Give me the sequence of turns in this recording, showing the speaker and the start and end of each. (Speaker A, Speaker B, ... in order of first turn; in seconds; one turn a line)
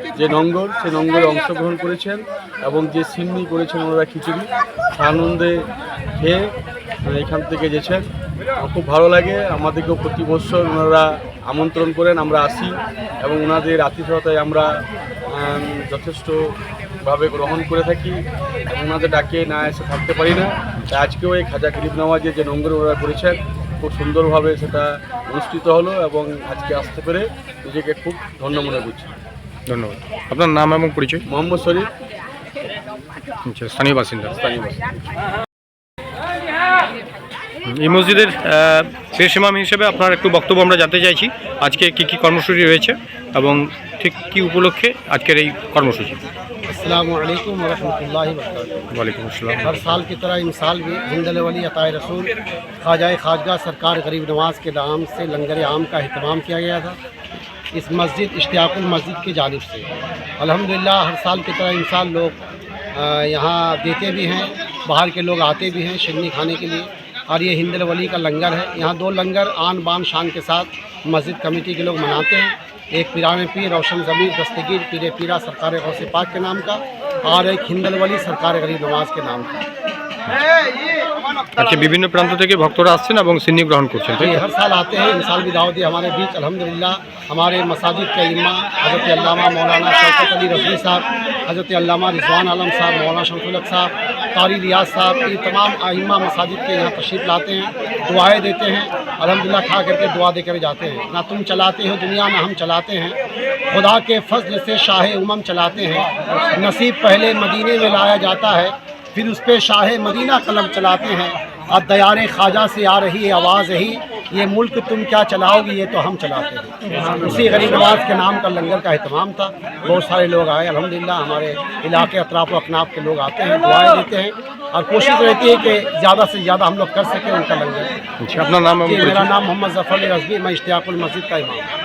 Speaker A: 0.1-6.5
Speaker A: 7.0-29.1
Speaker B: 29.7-31.2
Speaker A: 31.3-31.9
Speaker B: 33.4-34.4
Speaker A: 34.4-35.0
Speaker B: 37.7-46.2
Speaker C: 46.7-48.9
Speaker B: 48.9-49.9
Speaker C: 49.6-57.0
Speaker C: 57.7-62.4
Speaker C: 62.9-79.6
Speaker B: 81.6-84.4
Speaker C: 84.2-103.2
Speaker C: 103.7-127.9
Speaker B: 117.3-117.6
Speaker B: 128.2-129.2
Speaker C: 128.8-131.7